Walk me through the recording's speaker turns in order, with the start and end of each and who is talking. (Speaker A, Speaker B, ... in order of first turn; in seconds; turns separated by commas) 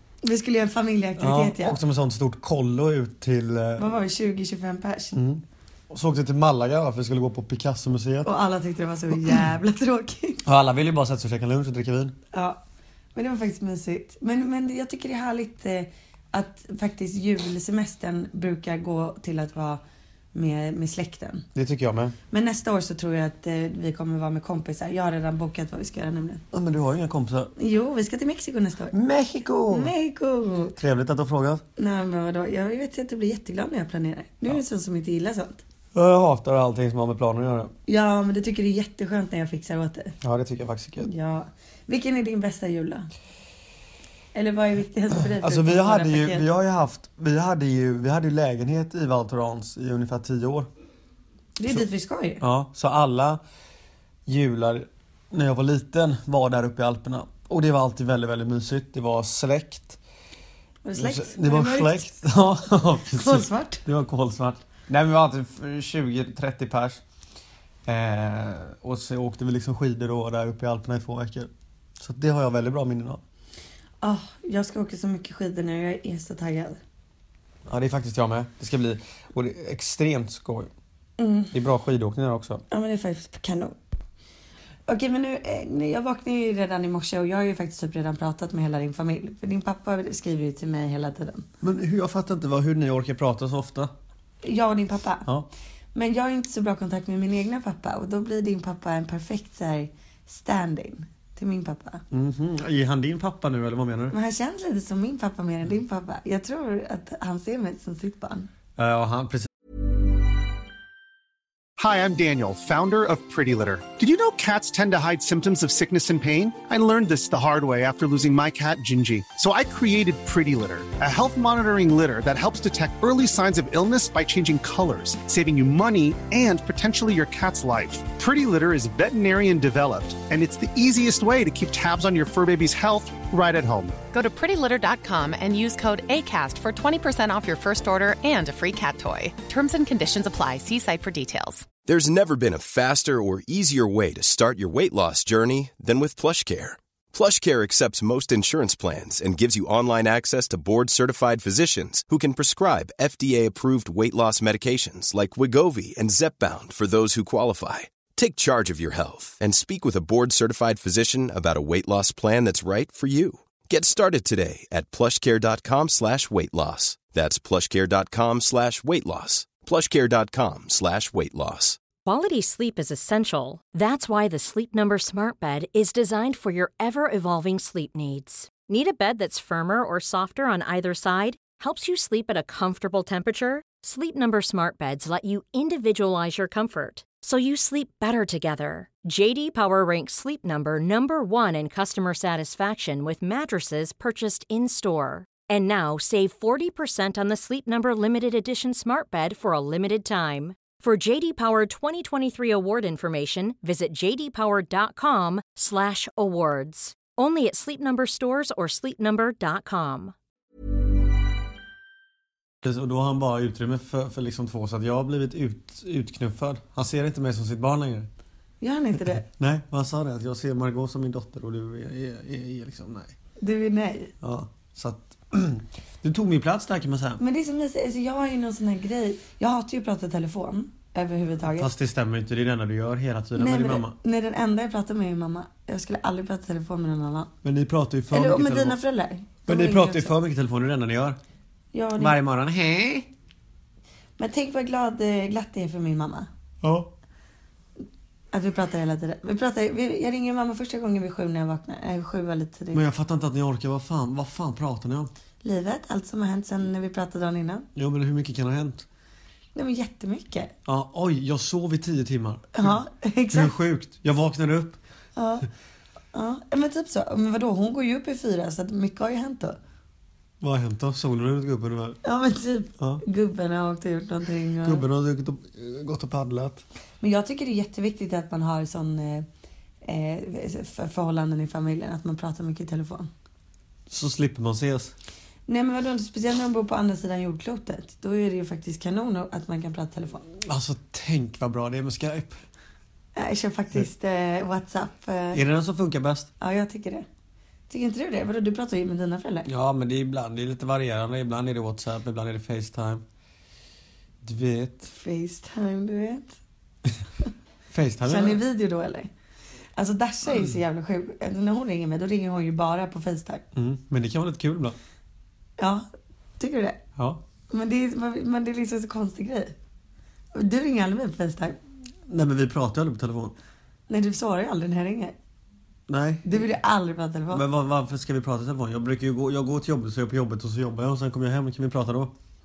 Speaker A: 0.2-1.8, Speaker B: 1.2-3.9, Speaker A: 3.8-5.2, Speaker B: 5.1-8.3, Speaker A: 8.2-10.4, Speaker B: 10.4-12.2, Speaker A: 12.3-12.6, Speaker A: 13.1-19.8, Speaker A: 20.3-21.4, Speaker B: 21.5-22.1, Speaker A: 22.3-26.4, Speaker B: 26.5-27.5, Speaker A: 27.6-28.9, Speaker B: 28.9-29.9, Speaker A: 29.7-30.8, Speaker B: 30.8-31.6, Speaker A: 31.8-35.6, Speaker B: 35.9-37.7, Speaker A: 37.9-40.1, Speaker B: 40.2-41.1, Speaker A: 41.0-43.1, Speaker A: 44.3-46.5, Speaker B: 45.1-50.7, Speaker A: 51.6-52.4, Speaker B: 52.4-53.4, Speaker B: 54.2-60.0, Speaker A: 60.8-62.1, Speaker B: 61.0-67.0, Speaker A: 63.1-63.8, Speaker B: 67.8-73.2, Speaker A: 74.0-76.8, Speaker B: 77.7-80.7, Speaker A: 81.2-81.5, Speaker B: 81.5-82.6, Speaker A: 82.7-83.7, Speaker A: 84.9-91.5, Speaker B: 91.6-93.9, Speaker A: 94.4-95.2, Speaker A: 95.9-102.0, Speaker B: 102.1-104.1, Speaker A: 104.1-108.5, Speaker B: 108.8-109.5, Speaker C: 111.8-134.0, Speaker D: 134.1-141.7, Speaker E: 141.8-171.8, Speaker F: 172.0-210.1, Speaker B: 212.6-218.1, Speaker A: 218.6-219.2, Speaker B: 219.1-223.1, Speaker A: 223.4-224.1, Speaker B: 224.2-227.2, Speaker A: 227.2-231.7, Speaker B: 231.6-233.9, Speaker A: 233.3-237.3, Speaker B: 237.4-238.8, Speaker A: 238.1-240.1, Speaker B: 239.5-241.2, Speaker A: 241.7-242.2, Speaker B: 241.9-243.1, Speaker A: 244.2-246.3, Speaker B: 246.6-246.9, Speaker A: 248.3-252.8, Speaker B: 252.7-255.1, Speaker A: 255.4-257.7, Speaker B: 257.8-258.9, Speaker A: 259.5-260.5, Speaker B: 260.6-262.8, Speaker A: 262.5-263.5, Speaker B: 263.3-264.8, Speaker A: 265.1-265.5, Speaker A: 266.1-269.6, Speaker B: 270.4-272.0, Speaker A: 272.0-274.8, Speaker B: 274.6-276.6, Speaker A: 277.0-279.2, Speaker A: 279.8-283.1, Speaker B: 283.9-284.9, Speaker A: 285.5-290.3, Speaker B: 290.4-292.4, Speaker A: 293.1-295.4, Speaker B: 295.3-296.3, Speaker A: 296.4-297.1, Speaker A: 297.7-299.5, Speaker B: 299.4-303.0, Speaker B: 304.2-304.9, Speaker A: 304.9-306.4, Speaker B: 307.7-308.4, Speaker A: 308.0-309.1, Speaker A: 309.8-313.4, Speaker B: 313.5-314.8, Speaker A: 315.6-315.8, Speaker A: 316.4-316.8, Speaker A: 317.5-319.5, Speaker A: 320.3-321.6, Speaker B: 322.1-323.3, Speaker A: 323.9-325.1, Speaker B: 325.9-326.5, Speaker A: 326.2-327.4, Speaker B: 327.3-332.1